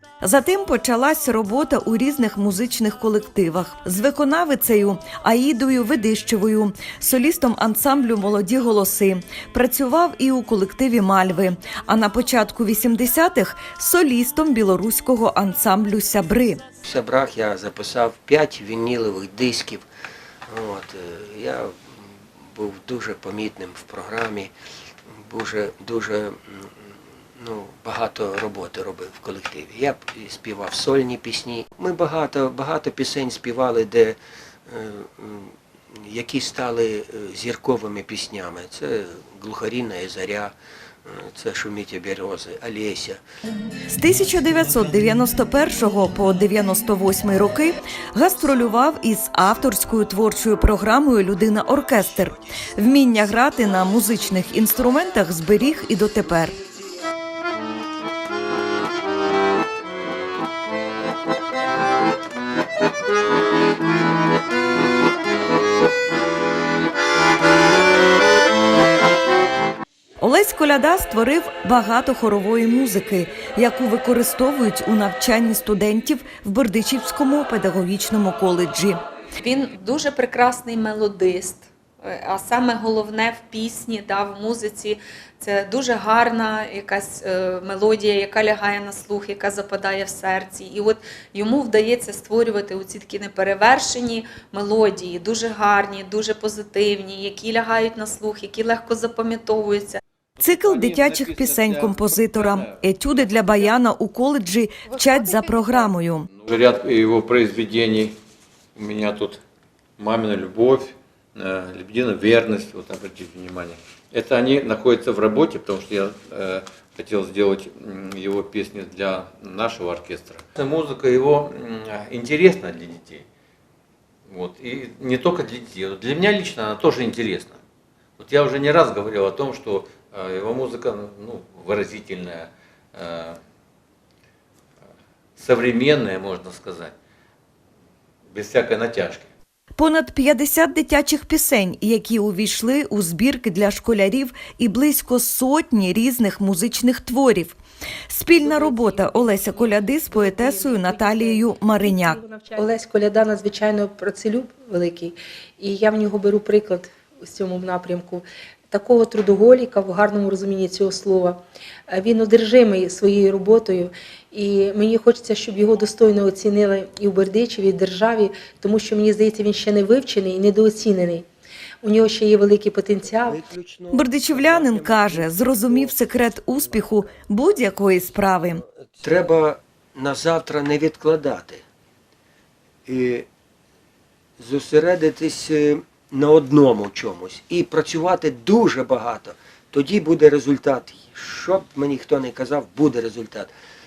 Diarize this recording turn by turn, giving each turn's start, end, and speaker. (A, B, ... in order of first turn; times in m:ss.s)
0:00.2-0:16.6 A
0:16.8-0:19.8 B
0:20.5-0:21.7 B
0:22.5-0:24.5 B
0:25.2-0:26.7 B
0:27.4-0:40.5 B
0:41.0-0:43.2 B
0:43.9-0:56.6 A
1:10.2-1:19.0 A
1:19.4-1:40.0 C
1:40.4-1:42.8 D
1:40.4-1:46.3 A
1:46.3-1:48.2 D
1:48.8-1:49.4 D
1:50.0-2:03.2 D
2:04.3-2:07.6 D
2:08.2-2:13.4 D
2:15.4-2:16.9 D
2:18.3-2:19.3 D
2:19.8-2:27.6 A
2:28.1-2:32.2 A
2:28.3-2:51.2 E
2:51.8-2:53.4 E
2:53.0-2:56.0 B
2:53.9-2:58.6 A
2:59.0-3:01.6 B
3:02.8-3:03.3 B
3:04.4-3:13.5 B